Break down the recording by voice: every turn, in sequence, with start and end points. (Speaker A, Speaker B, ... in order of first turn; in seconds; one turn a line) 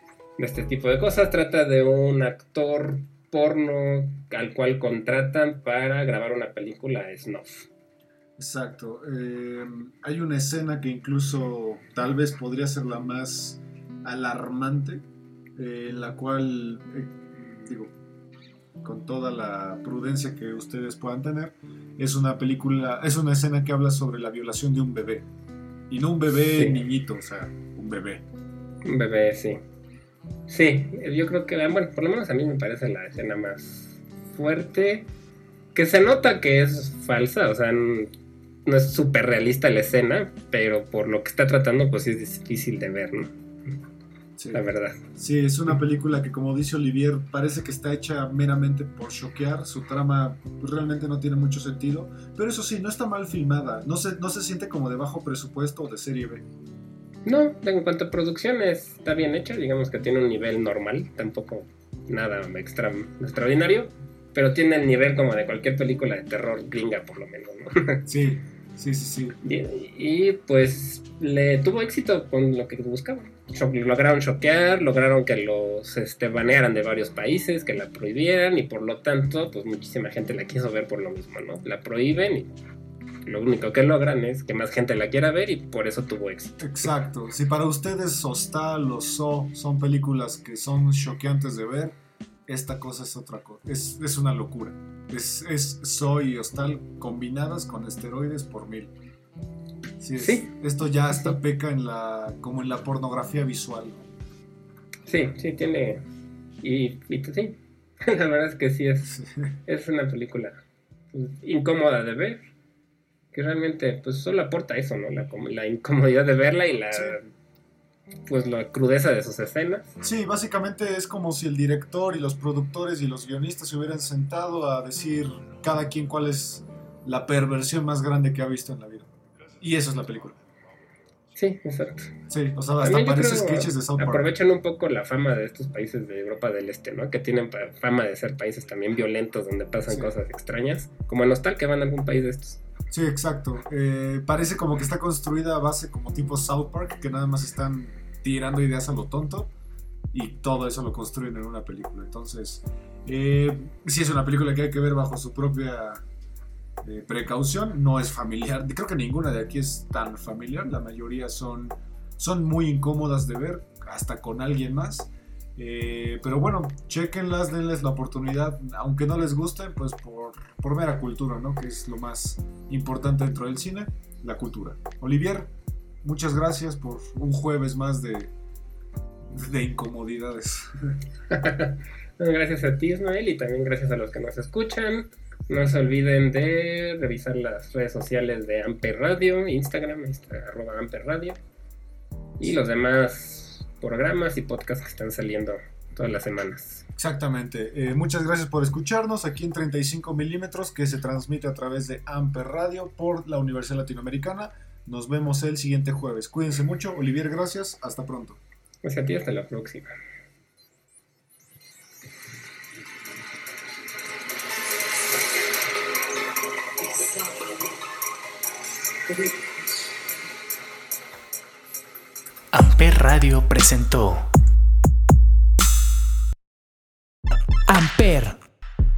Speaker A: 0.4-7.7
Speaker B: 8.4-15.0
Speaker B: 15.6-17.9
Speaker B: 18.8-25.3
Speaker B: 25.9-28.2
Speaker A: 26.4-26.8
Speaker A: 28.8-29.6
Speaker A: 30.5-35.1
Speaker A: 35.7-38.1
Speaker A: 38.6-43.3
Speaker B: 44.4-56.5
Speaker A: 44.5-45.0
Speaker A: 57.2-68.0
Speaker B: 68.0-69.4
Speaker A: 69.4-82.5
Speaker A: 83.2-86.7
Speaker B: 86.6-98.9
Speaker B: 100.0-104.1
Speaker A: 100.2-100.5
Speaker A: 105.0-106.0
Speaker A: 106.6-110.6
Speaker B: 109.1-109.5
Speaker A: 111.1-112.4
Speaker A: 113.3-117.3
Speaker B: 116.9-117.2
Speaker A: 118.2-119.9
Speaker B: 120.0-130.4
Speaker A: 131.3-132.1
Speaker B: 132.3-134.3
Speaker A: 132.8-142.6
Speaker B: 139.8-140.1
Speaker B: 142.9-149.5
Speaker B: 150.1-156.0
Speaker B: 156.8-175.5
Speaker B: 176.0-178.3
Speaker B: 179.3-181.0
Speaker A: 181.3-191.4
Speaker A: 192.4-196.8
Speaker B: 196.9-208.4
Speaker A: 208.8-209.9
Speaker C: 222.5-224.3
Speaker C: 227.7-228.4